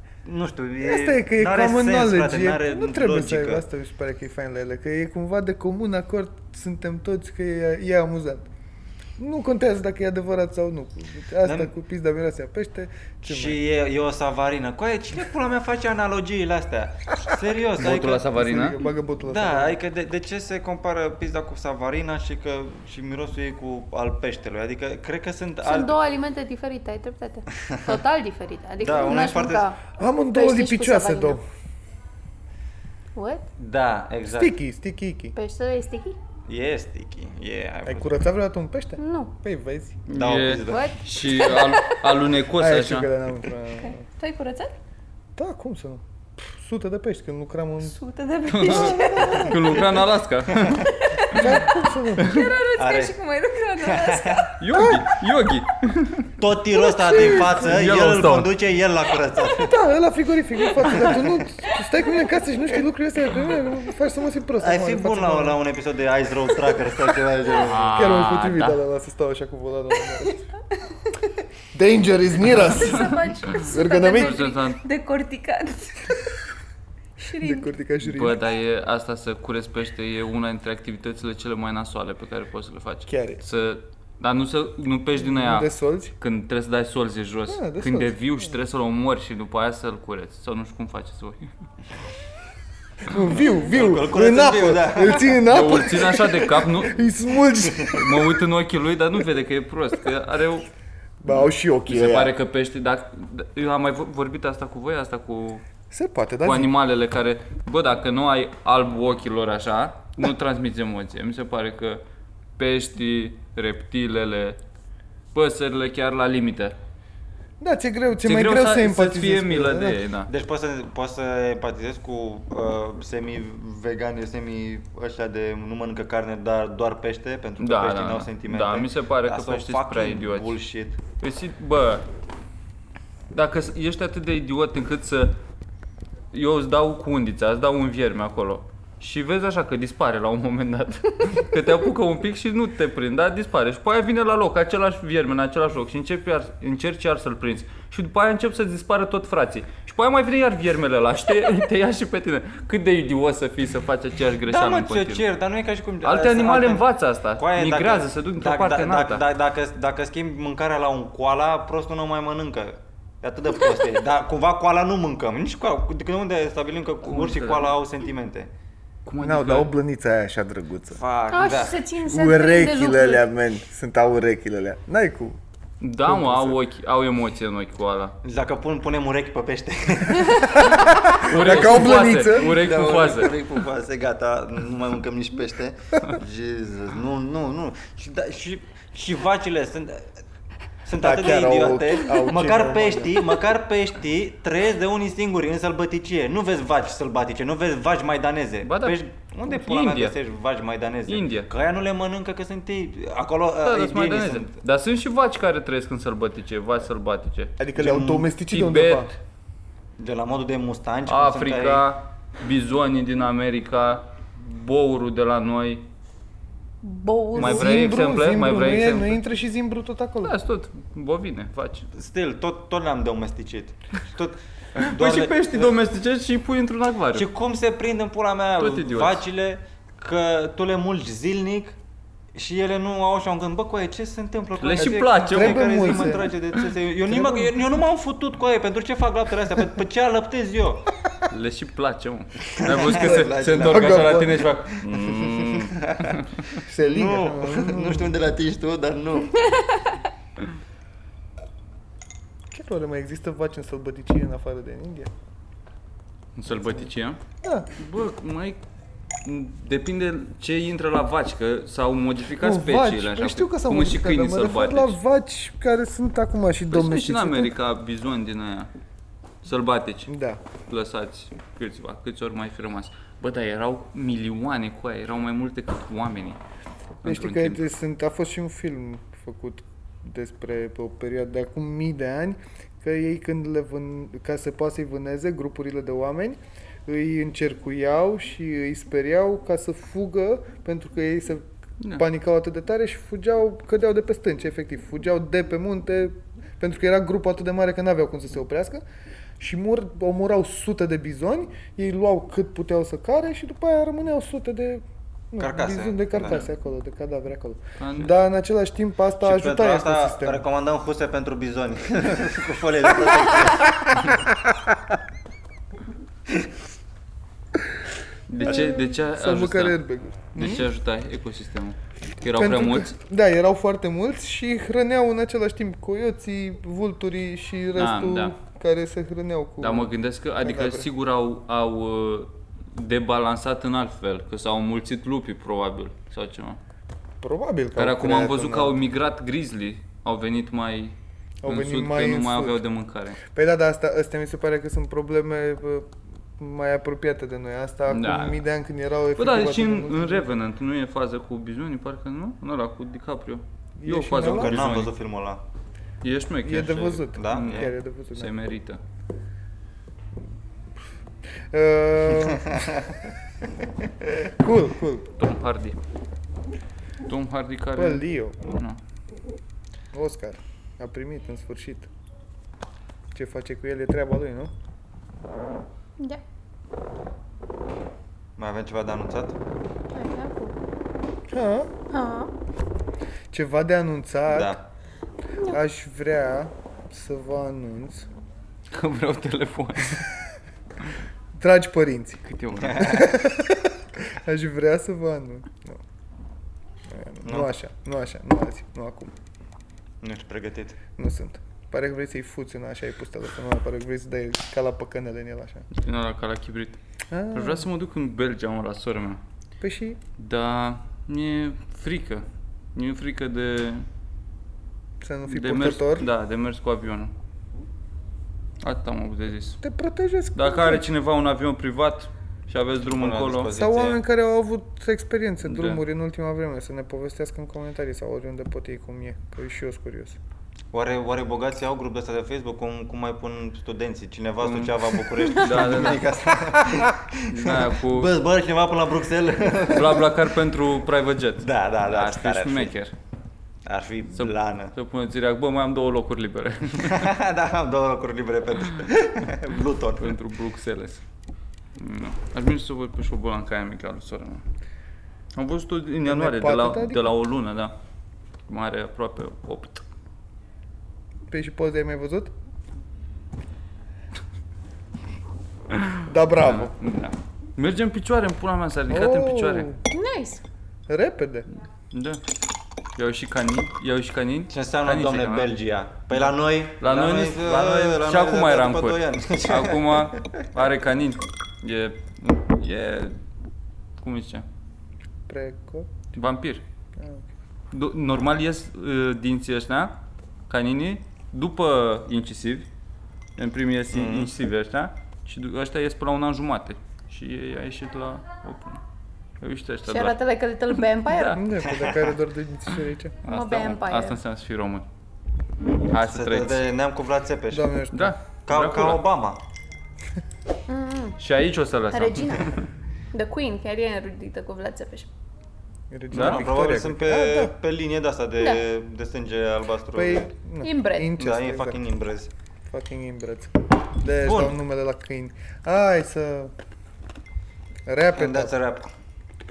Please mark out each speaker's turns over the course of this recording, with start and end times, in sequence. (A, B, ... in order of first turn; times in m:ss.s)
0:00.2-0:03.6 A
0:00.8-0:08.4 B
0:09.2-0:13.6 B
0:11.4-0:11.7 A
0:13.2-0:18.3 A
0:17.8-0:18.8 C
0:17.8-0:19.8 B
0:19.2-0:26.0 A
0:25.6-0:31.4 D
0:27.7-0:28.0 A
0:28.8-0:29.7 A
0:29.9-0:31.4 B
0:33.2-0:33.5 D
0:33.6-0:34.6 A
0:34.3-0:35.4 B
0:35.3-0:36.2 D
0:36.5-0:38.2 A
0:37.9-0:40.0 B
0:39.0-0:39.3 D
0:40.1-0:43.1 C
0:40.1-0:40.9 A
0:40.6-0:42.0 D
0:42.6-0:44.0 B
0:43.8-0:44.7 D
0:45.4-0:48.0 B
0:47.8-0:50.0 D
0:48.5-0:51.4 C
0:48.6-0:49.8 B
0:50.5-0:50.8 A
0:50.8-0:54.5 D
0:51.3-0:52.5 B
0:52.8-0:53.2 A
0:53.8-0:54.5 A
0:54.6-0:56.3 C
0:54.7-0:55.1 B
0:56.4-0:59.7 A
0:56.7-0:57.4 D
0:57.2-0:57.5 B
0:57.2-0:58.5 C
0:59.6-1:05.6 B
1:04.6-1:08.0 A
1:07.6-1:08.8 C
1:07.8-1:10.5 B
1:11.7-1:14.4 B
1:12.5-1:16.3 D
1:14.1-1:14.8 C
1:17.2-1:17.7 D
1:17.4-1:18.4 B
1:18.0-1:31.5 C
1:23.1-1:23.4 B
1:25.2-1:26.2 B
1:27.5-1:28.6 B
1:33.1-1:38.4 B
1:33.4-1:35.4 A
1:35.5-1:37.0 C
1:37.8-1:40.7 C
1:41.2-1:42.3 B
1:41.3-1:45.6 C
1:45.9-1:46.7 B
1:46.4-1:52.0 C
1:52.6-1:54.6 C
1:55.3-1:56.8 C
1:57.6-2:00.0 B
1:58.2-2:00.3 C
2:00.3-2:11.0 A
2:07.6-2:10.6 C
2:11.2-2:12.1 C
2:13.3-2:15.4 C
2:16.3-2:35.3 C
2:34.5-2:48.5 A
2:36.0-2:39.2 C
2:47.0-2:47.8 C
2:49.1-2:49.7 C
2:49.2-2:51.0 B
2:50.9-2:51.8 A
2:51.3-2:53.2 D
2:52.0-2:55.4 B
2:55.8-2:58.2 C
2:56.1-2:56.6 B
2:58.2-3:00.7 A
3:00.6-3:02.6 B
3:01.1-3:03.4 C
3:01.5-3:10.1 A
3:10.8-3:24.5 A
3:11.0-3:13.3 B
3:18.6-3:20.2 C
3:21.1-3:21.5 C
3:23.6-3:29.1 C
3:27.6-3:29.1 B
3:27.8-3:28.3 A
3:30.0-3:31.8 A
3:31.1-3:35.8 C
3:36.8-3:37.8 D
3:37.4-3:39.2 C
3:37.4-3:40.3 B
3:40.2-3:41.9 C
3:41.9-3:45.8 A
3:44.8-3:47.3 C
3:47.1-3:51.8 A
3:48.6-3:49.2 C
3:52.3-4:00.9 A
3:54.6-3:56.7 C
3:54.8-3:56.4 B
3:57.1-3:57.5 B
4:01.3-4:06.3 C
4:02.5-4:04.3 A
4:02.8-4:04.4 B
4:05.3-4:06.2 A
4:06.6-4:08.2 B
4:06.8-4:09.5 A
4:12.5-4:15.1 B
4:16.4-4:17.2 C
4:17.4-4:17.7 B
4:17.8-4:18.6 C
4:19.2-4:25.0 C
4:22.4-4:27.5 B
4:26.7-4:28.7 C
4:29.4-4:30.1 C
4:30.1-4:30.4 B
4:30.7-4:36.4 C
4:37.0-4:37.6 C
4:37.0-4:58.8 B
4:59.4-5:10.4 B
5:05.4-5:06.4 A
5:07.8-5:08.2 C
5:09.2-5:14.1 A
5:18.3-5:19.8 C
5:18.3-5:20.6 B
5:20.3-5:22.9 C
5:22.4-5:29.9 B
5:27.8-5:28.4 C
5:29.6-5:36.6 C
5:30.4-5:30.9 B
5:37.2-5:38.8 B
5:37.8-5:43.2 C
5:41.4-5:42.6 B
5:43.2-5:50.3 B
5:47.9-5:48.4 C
5:49.2-5:54.9 C
5:53.8-5:54.6 B
5:54.2-5:55.4 A
5:56.0-5:58.8 C
5:56.4-5:58.3 B
5:57.2-5:57.7 A
6:01.5-6:02.9 B
6:04.2-6:05.1 B
6:05.2-6:05.8 C
6:07.1-6:08.8 C
6:07.8-6:08.4 B
6:09.9-6:11.9 B
6:13.1-6:14.5 B
6:18.4-6:19.4 A
6:19.9-6:20.6 D
6:21.3-6:21.7 B
6:21.9-6:22.3 D
6:23.3-6:24.6 B
6:24.3-6:24.6 A
6:25.5-6:28.1 B
6:28.7-6:30.0 C
6:31.4-6:32.2 B
6:32.3-6:33.1 C
6:32.6-6:33.0 A
6:32.8-6:35.8 B
6:36.9-6:39.1 B
6:37.2-6:37.5 A
6:40.0-6:40.8 A
6:41.0-6:45.7 B
6:45.7-6:46.8 C
6:47.1-6:47.7 B
6:47.3-6:49.2 C
6:49.6-6:50.0 B
6:50.2-6:53.8 C
6:55.0-6:56.1 B
6:55.3-6:57.1 C
6:58.6-6:59.6 C
6:59.6-7:00.8 B
7:00.4-7:03.5 C
7:02.8-7:04.0 A
7:03.5-7:10.2 B
7:05.4-7:05.8 C
7:10.7-7:20.2 A
7:14.4-7:14.8 C
7:15.4-7:16.1 C
7:17.3-7:18.1 C
7:19.7-7:22.9 C
7:21.4-7:22.7 A
7:23.6-7:24.7 A
7:24.2-7:27.2 C
7:26.8-7:30.2 A
7:30.0-7:31.0 C
7:31.8-7:34.4 C
7:35.4-7:37.7 C
7:36.1-7:37.1 B
7:38.5-7:39.8 C
7:41.3-7:42.3 B
7:45.8-7:49.7 C
7:46.0-7:46.7 B
7:48.9-7:49.8 B
7:49.9-7:50.4 D
7:50.9-7:51.5 B
7:51.9-7:52.2 C
7:53.0-7:55.5 C
7:54.5-8:00.4 A
7:56.8-8:03.2 C
8:04.0-8:04.4 C
8:05.3-8:05.9 B
8:06.2-8:06.6 C
8:07.0-8:07.3 B
8:07.7-8:10.0 C
8:10.5-8:12.7 C
8:13.4-8:18.8 C
8:13.9-8:14.3 A
8:19.4-8:20.2 C
8:19.9-8:21.4 D
8:20.9-8:21.4 C
8:21.4-8:23.2 B
8:23.2-8:24.9 C
8:23.3-8:24.2 D
8:25.9-8:26.7 C
8:26.0-8:27.7 A
8:27.5-8:28.2 B
8:27.9-8:29.0 C
8:28.5-8:29.4 A
8:30.7-8:31.2 D
8:31.2-8:32.6 C
8:31.9-8:32.6 D
8:33.1-8:35.1 D
8:35.9-8:37.5 B
8:36.1-8:36.5 C
8:36.1-8:40.3 A
8:40.0-8:41.8 B
8:40.6-8:41.1 D
8:41.2-8:42.3 A
8:42.7-8:46.5 B
8:44.2-8:44.6 A
8:47.9-8:48.5 B
8:48.1-8:48.9 A